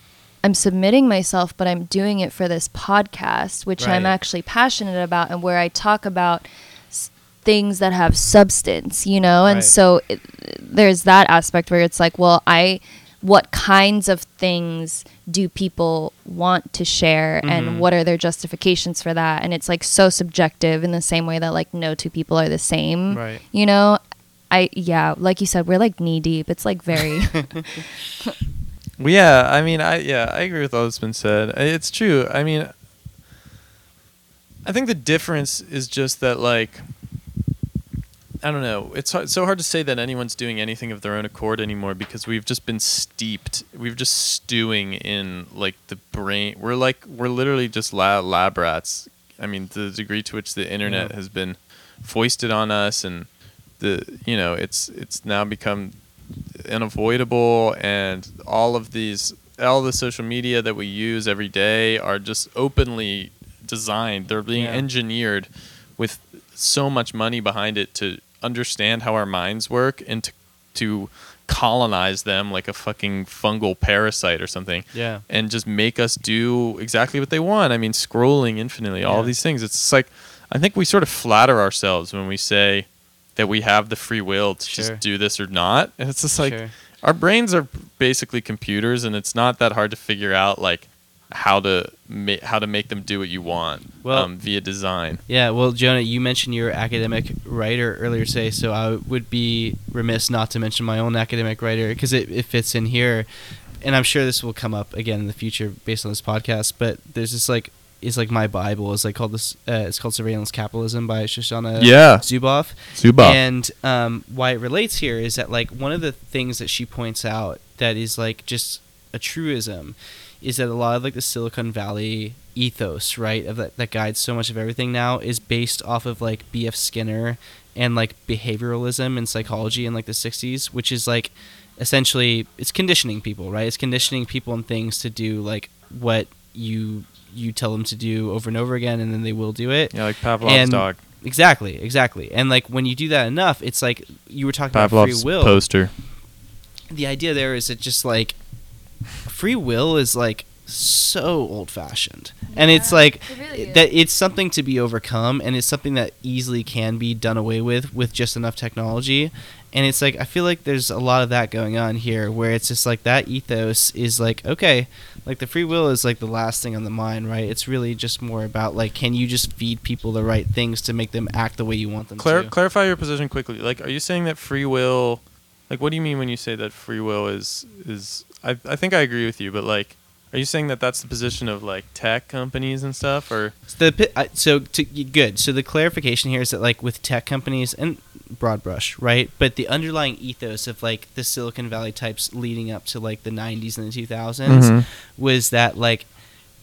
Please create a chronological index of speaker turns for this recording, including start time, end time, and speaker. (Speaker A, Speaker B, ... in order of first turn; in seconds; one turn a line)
Speaker A: 0.4-28.4
Speaker B: 3.8-4.1
Speaker B: 9.5-9.7
Speaker B: 17.4-17.9
Speaker B: 23.1-23.4
Speaker B: 27.5-27.9
Speaker C: 29.0-32.8
Speaker C: 34.6-36.9
Speaker C: 38.4-95.2
Speaker B: 50.8-51.1
Speaker B: 64.5-64.9
Speaker B: 74.9-75.2
Speaker B: 79.0-79.3
Speaker B: 84.7-85.0
Speaker B: 86.4-86.7
Speaker B: 94.0-94.3
Speaker B: 95.3-145.8
Speaker C: 111.8-112.3
Speaker C: 112.9-113.4
Speaker C: 139.9-141.0
Speaker C: 144.7-145.9
Speaker B: 146.9-148.4
Speaker B: 149.2-172.5
Speaker A: 152.5-153.9
Speaker C: 172.2-183.6
Speaker B: 183.7-196.1
Speaker C: 194.5-194.9